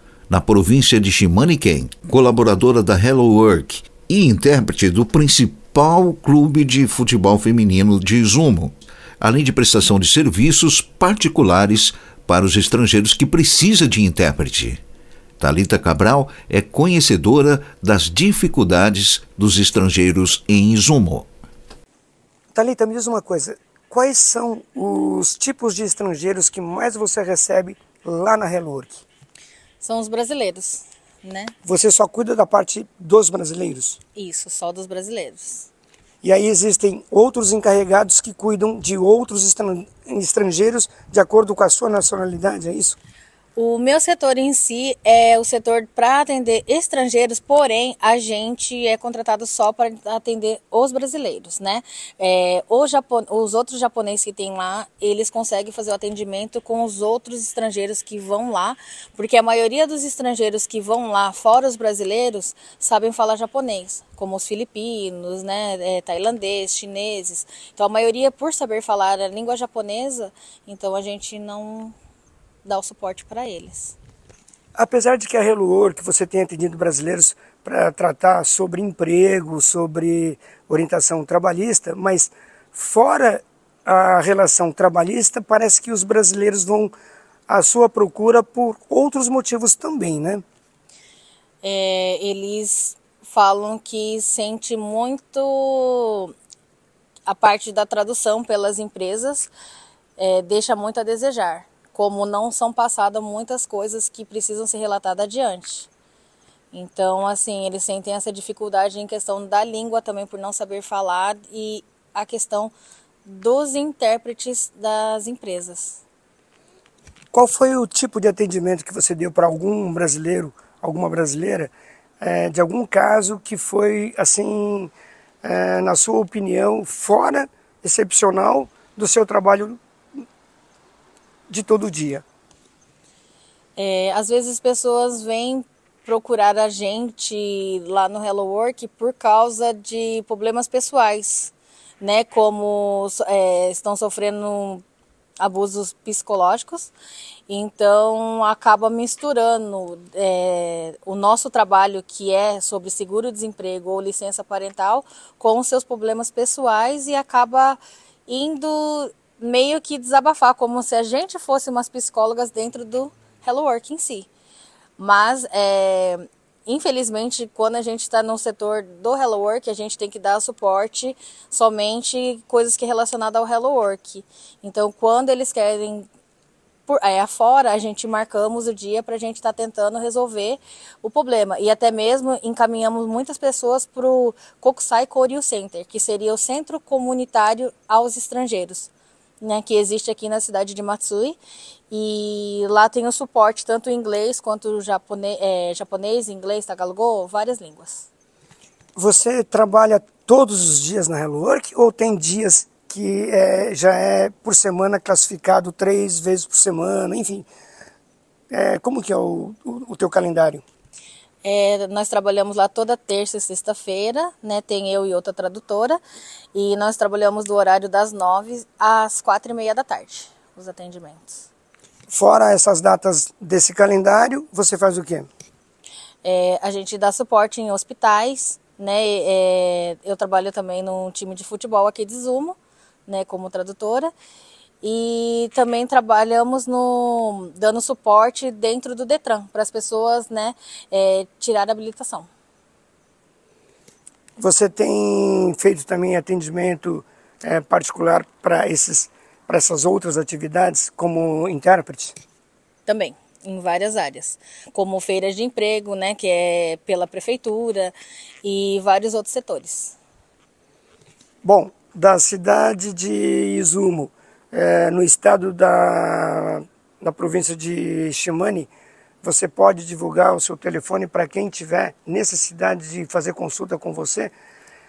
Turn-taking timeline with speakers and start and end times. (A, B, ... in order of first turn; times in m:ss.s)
0:00.3-0:14.8 A
0:15.4-0:21.3 A
0:22.5-0:29.0 B
0:29.8-0:31.5 C
0:31.6-0:34.0 B
0:34.2-0:35.7 C
0:36.2-0:43.0 B
0:43.6-1:12.0 C
1:12.6-1:14.0 C
1:14.8-1:26.9 B
1:27.5-1:30.4 B
1:31.6-1:36.3 C
1:37.3-1:39.5 C
1:40.2-1:45.9 C
1:46.7-1:52.7 C
1:53.2-1:56.0 C
1:57.3-2:04.9 B
2:05.4-2:10.2 B
2:11.5-2:12.2 B
2:13.8-2:24.8 C
2:25.4-2:26.9 C
2:27.5-2:44.3 C
2:45.0-2:56.1 C
2:56.9-3:11.4 C
3:11.9-3:18.1 C
3:19.0-3:27.5 B
3:28.5-3:30.6 B
3:31.4-3:36.0 C
3:36.5-3:41.5 C
3:42.1-3:45.3 B
3:46.2-3:54.1 C
3:54.8-4:02.3 C
4:04.4-4:12.2 B
4:12.9-4:20.0 C
4:21.4-4:28.7 B
4:29.2-4:34.3 B